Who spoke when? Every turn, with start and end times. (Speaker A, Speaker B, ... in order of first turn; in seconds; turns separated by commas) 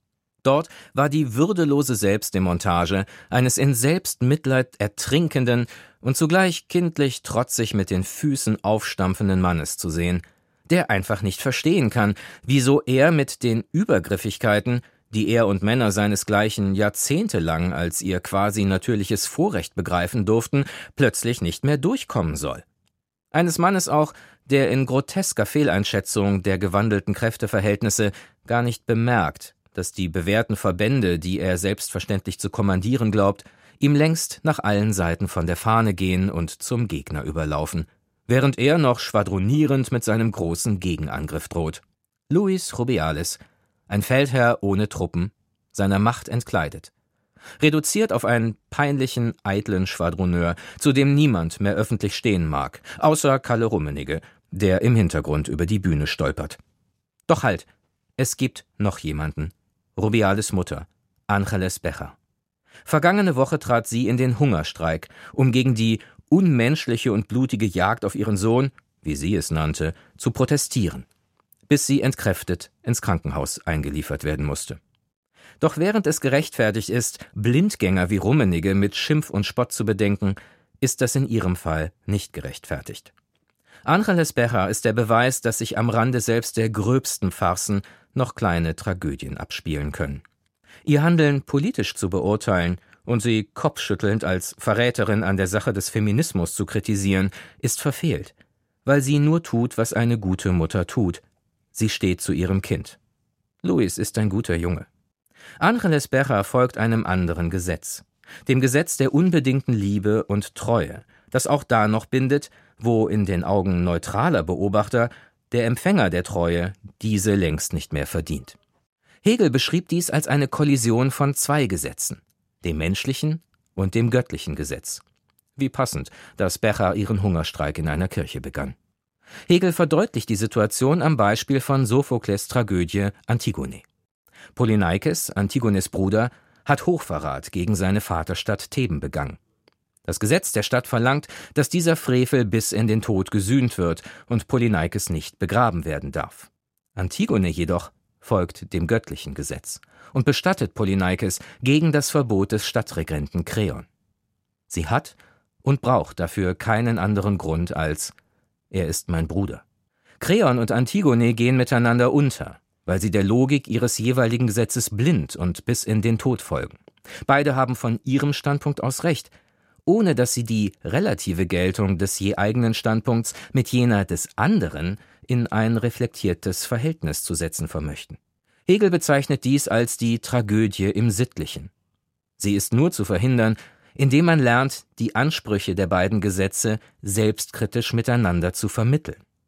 Speaker A: 0.4-22.6, Speaker A: 23.3-46.9, Speaker A: 47.6-56.6, Speaker A: 57.3-57.7, Speaker A: 58.2-62.1, Speaker A: 62.9-71.1, Speaker A: 71.7-74.8, Speaker A: 75.6-83.1, Speaker A: 83.8-90.2, Speaker A: 90.8-98.3, Speaker A: 98.8-101.2, Speaker A: 101.7-103.0, Speaker A: 103.6-104.9, Speaker A: 105.6-118.6, Speaker A: 119.2-125.0, Speaker A: 125.6-128.8, Speaker A: 129.5-133.8, Speaker A: 134.6-139.4, Speaker A: 140.1-153.9, Speaker A: 154.7-158.1, Speaker A: 158.7-159.6, Speaker A: 160.2-169.3, Speaker A: 169.9-181.7, Speaker A: 182.4-189.2